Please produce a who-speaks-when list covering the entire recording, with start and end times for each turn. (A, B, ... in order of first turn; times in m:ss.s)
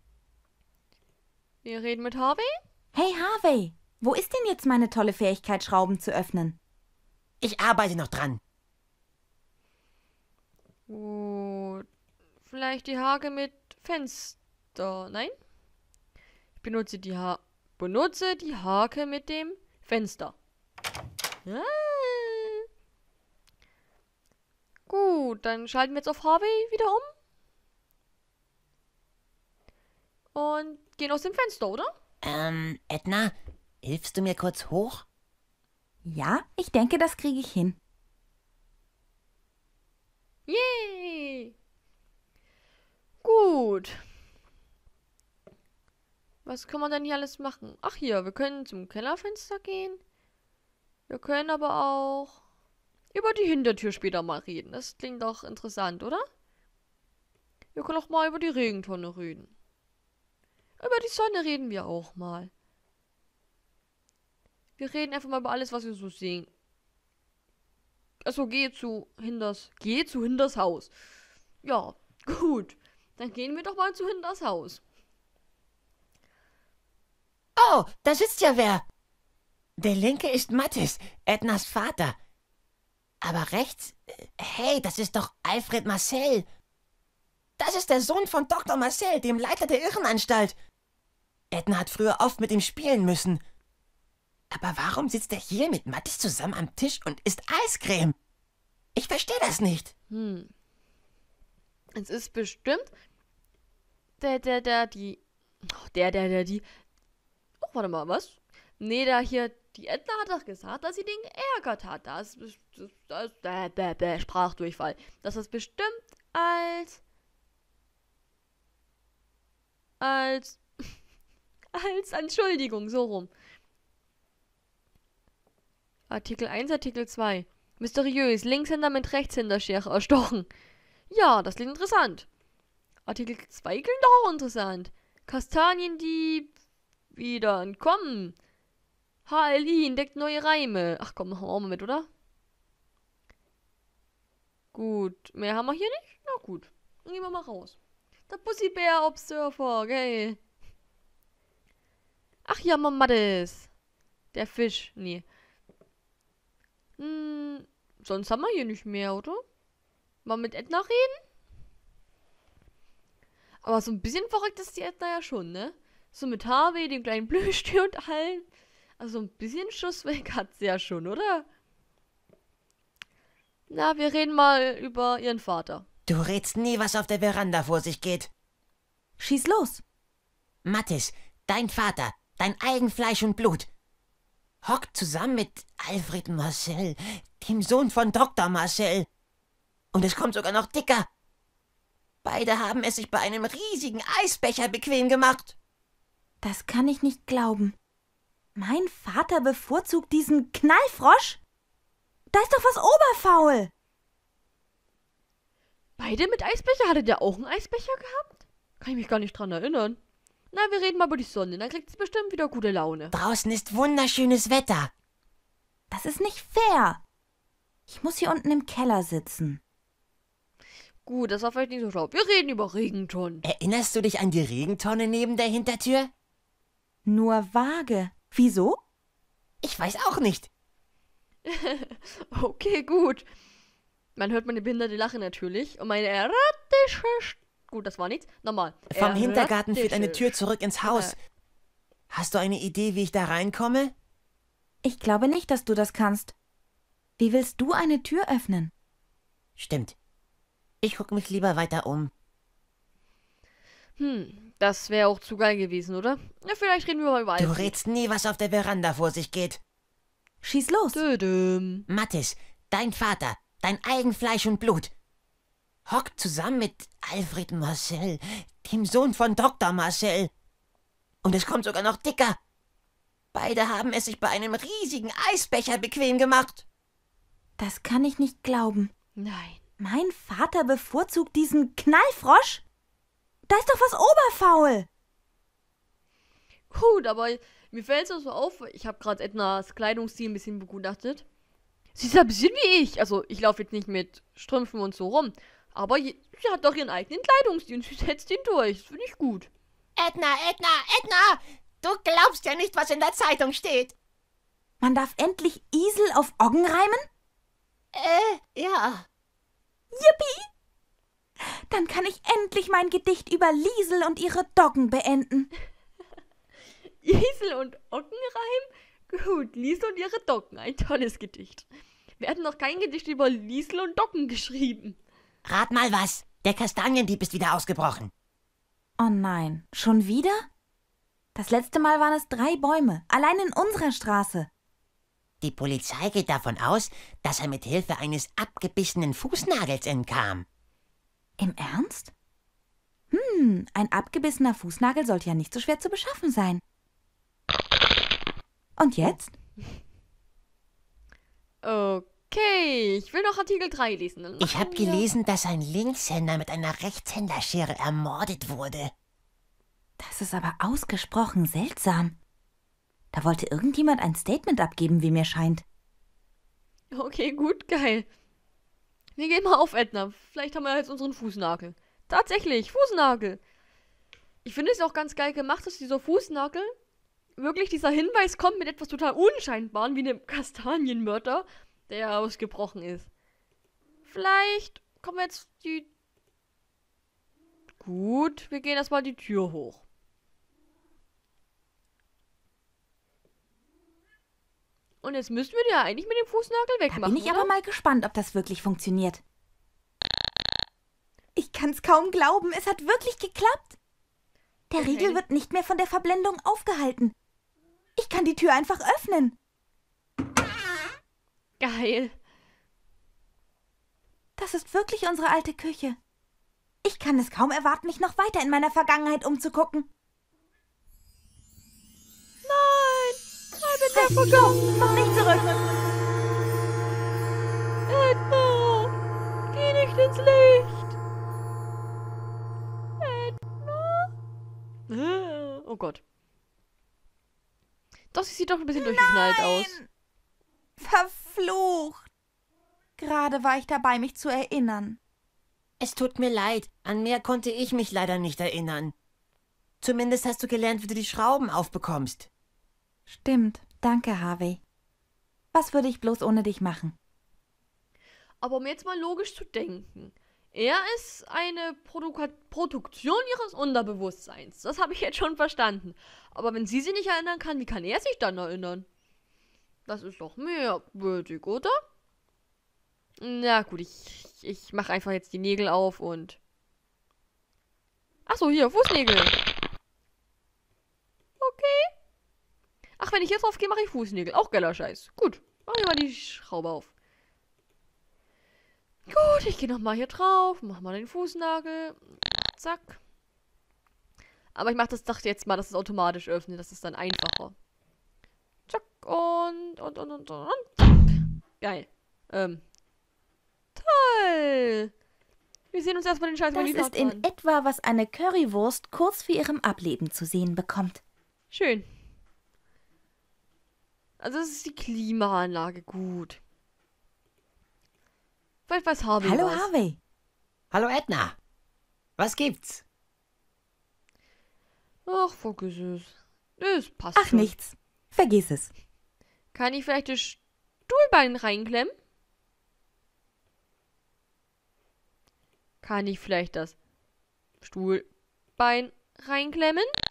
0:01.6-0:02.6 A
0:02.9-0:06.6 B
0:07.4-0:08.4 C
0:10.9-0:11.8 A
0:12.4-0:15.3 A
0:16.6-0:20.3 A
0:21.4-0:22.6 A
0:24.9-0:27.1 A
0:30.3-0:31.9 A
0:32.2-0:35.0 C
0:36.0-0:37.8 B
0:40.5-0:41.5 A
0:43.2-0:44.0 A
0:46.4-0:50.0 A
0:51.1-0:52.4 A
0:53.1-0:56.2 A
0:57.7-0:59.5 A
1:00.8-1:02.5 A
1:04.8-1:06.5 A
1:08.2-1:10.9 A
1:11.6-1:14.8 A
1:17.6-1:18.8 C
1:19.8-1:22.2 C
1:23.2-1:26.4 C
1:27.6-1:30.5 C
1:31.5-1:33.4 C
1:34.5-1:38.1 C
1:39.0-1:39.9 C
1:40.1-1:40.5 A
1:41.9-1:42.9 A
1:44.2-1:46.6 A
1:47.6-1:57.0 A
2:00.0-2:00.9 A
2:01.7-2:03.3 A
2:06.1-2:10.5 A
2:11.1-2:12.3 A
2:13.0-2:16.5 A
2:17.1-2:18.3 A
2:19.2-2:22.1 A
2:24.7-2:27.8 A
2:28.3-2:30.4 A
2:32.4-2:33.7 A
2:34.3-2:35.2 A
2:37.0-2:39.4 A
2:40.2-2:41.2 A
2:43.6-2:48.4 A
2:49.0-2:51.4 A
2:53.7-2:55.8 A
2:56.1-2:58.3 C
2:59.2-2:59.8 B
3:00.6-3:03.7 C
3:04.6-3:09.1 C
3:09.9-3:11.1 C
3:12.2-3:15.5 C
3:16.4-3:17.7 B
3:18.6-3:21.4 B
3:22.3-3:23.7 B
3:26.0-3:30.0 A
3:30.5-3:33.1 A
3:33.1-3:34.9 C
3:35.9-3:37.0 B
3:37.9-3:39.6 B
3:41.0-3:43.4 A
3:43.4-3:46.1 C
3:47.0-3:48.8 B
3:49.6-3:50.5 C
3:51.4-3:53.2 A
3:54.2-4:01.1 A
3:58.9-4:01.1 C
4:02.1-4:03.9 C
4:04.8-4:06.3 B
4:07.2-4:08.7 B
4:09.6-4:10.0 C
4:10.8-4:12.1 C
4:14.0-4:17.8 A
4:17.4-4:19.6 C
4:20.4-4:21.0 B
4:20.9-4:21.8 A
4:21.9-4:24.9 C
4:25.9-4:30.3 C
4:31.2-4:32.4 C
4:33.3-4:36.6 C
4:37.6-4:38.9 B
4:39.2-4:39.6 A
4:39.8-4:42.6 B
4:43.5-4:44.9 B
4:46.7-4:51.2 A
4:52.0-4:59.5 A
5:00.0-5:03.9 C
5:04.8-5:07.0 B
5:07.9-5:09.0 C
5:09.9-5:10.5 B
5:11.7-5:15.5 B
5:17.0-5:21.7 A
5:22.2-5:25.0 A
5:25.4-5:28.1 C
5:29.0-5:30.5 B
5:31.3-5:34.5 B
5:35.4-5:40.4 C
5:41.4-5:42.1 B
5:43.1-5:46.6 B
5:48.8-5:49.3 B
5:51.6-5:55.1 A
5:54.4-5:58.9 C
6:00.0-6:02.2 B
6:03.1-6:05.6 B
6:06.9-6:08.1 A
6:09.2-6:13.4 A
6:14.4-6:16.7 A
6:17.4-6:23.1 A
6:24.0-6:25.9 A
6:27.8-6:29.8 A
6:35.0-6:37.5 A
6:36.9-6:39.2 B
6:41.4-6:43.8 B
6:44.7-6:47.1 B
6:44.8-6:45.2 A
6:48.0-6:49.4 B
6:51.6-6:52.1 A
6:54.4-6:56.0 B
6:56.8-6:59.9 B
7:02.4-7:05.6 A
7:03.9-7:05.5 B
7:07.9-7:08.9 A
7:09.5-7:10.9 A
7:13.0-7:14.1 A
7:14.9-7:16.0 A
7:18.1-7:19.8 A
7:18.8-7:19.9 B
7:20.8-7:22.1 B
7:23.0-7:25.0 B
7:25.8-7:28.9 C
7:29.8-7:32.3 C
7:33.1-7:34.6 B
7:35.5-7:36.9 B
7:38.4-7:48.8 A
7:49.8-7:51.7 A
7:53.2-7:56.4 A
7:58.2-7:59.4 A
8:01.4-8:01.9 A
8:03.0-8:06.9 A
8:09.1-8:13.0 A
8:14.5-8:17.5 A
8:18.7-8:22.6 A
8:23.8-8:24.9 A
8:25.7-8:27.2 A
8:26.5-8:31.0 B
8:31.5-8:31.8 A
8:34.2-8:36.4 A
8:38.7-8:39.7 A
8:39.2-8:40.0 B
8:40.7-8:41.4 C
8:42.2-8:42.8 C
8:45.0-8:47.5 A
8:47.2-8:48.7 B
8:49.5-8:51.9 A
8:55.8-8:56.7 A
8:57.6-8:58.0 A
8:58.6-8:59.9 A